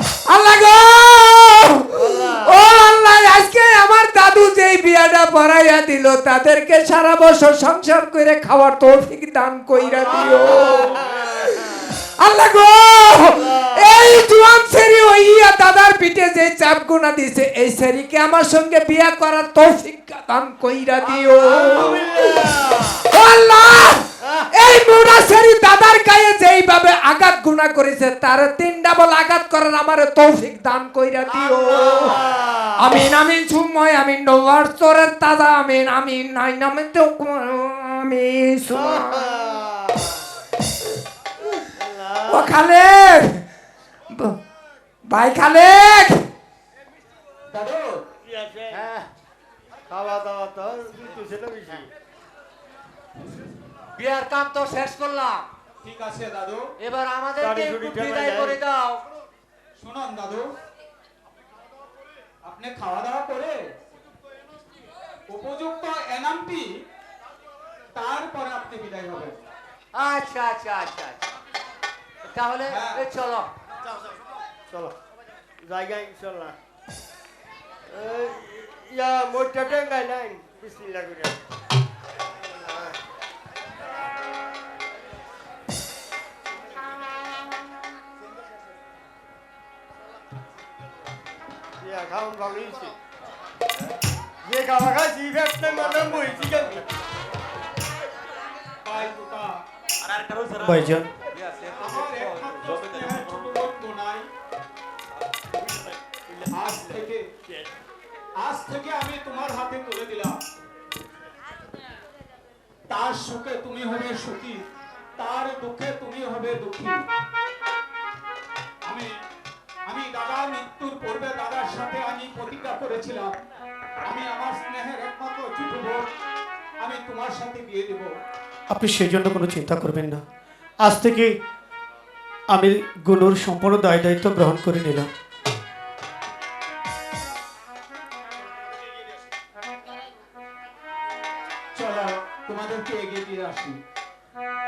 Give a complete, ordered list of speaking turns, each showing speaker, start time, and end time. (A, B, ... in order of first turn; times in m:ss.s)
0:00.2-0:10.9 A
0:01.9-0:02.5 B
0:09.9-0:11.9 B
0:11.6-0:22.0 A
0:13.4-0:13.9 B
0:21.1-0:22.1 C
0:21.4-0:22.8 B
0:23.1-0:32.1 A
0:31.6-0:32.9 B
0:32.8-0:39.3 A
0:38.7-0:40.2 B
0:41.8-0:42.5 B
0:42.3-0:43.4 A
0:44.1-0:44.4 A
0:45.1-0:46.2 A
0:47.5-0:48.0 D
0:48.2-0:48.9 B
0:48.7-0:49.1 C
0:49.9-0:51.9 B
0:54.0-0:55.5 C
0:55.8-0:56.7 D
0:56.8-0:59.0 C
0:57.4-0:58.6 B
0:59.8-1:00.5 D
1:02.4-1:03.6 D
1:05.3-1:06.7 D
1:07.9-1:09.4 D
1:09.9-1:11.2 C
1:12.2-1:13.5 C
1:12.7-1:13.0 D
1:14.7-1:14.9 B
1:15.6-1:16.6 B
1:17.9-1:21.4 B
1:31.8-1:32.9 B
1:34.4-1:36.9 B
1:38.8-1:39.6 D
1:40.1-1:40.8 B
1:40.7-1:41.1 E
1:41.7-1:44.3 D
1:46.5-1:47.2 D
1:48.4-1:50.4 D
1:52.9-1:54.6 D
1:55.2-1:57.0 D
1:59.9-2:03.4 D
2:04.1-2:06.1 D
2:06.8-2:08.1 D
2:08.7-2:10.2 E
2:10.8-2:11.4 E
2:12.5-2:15.1 E
2:21.8-2:23.8 D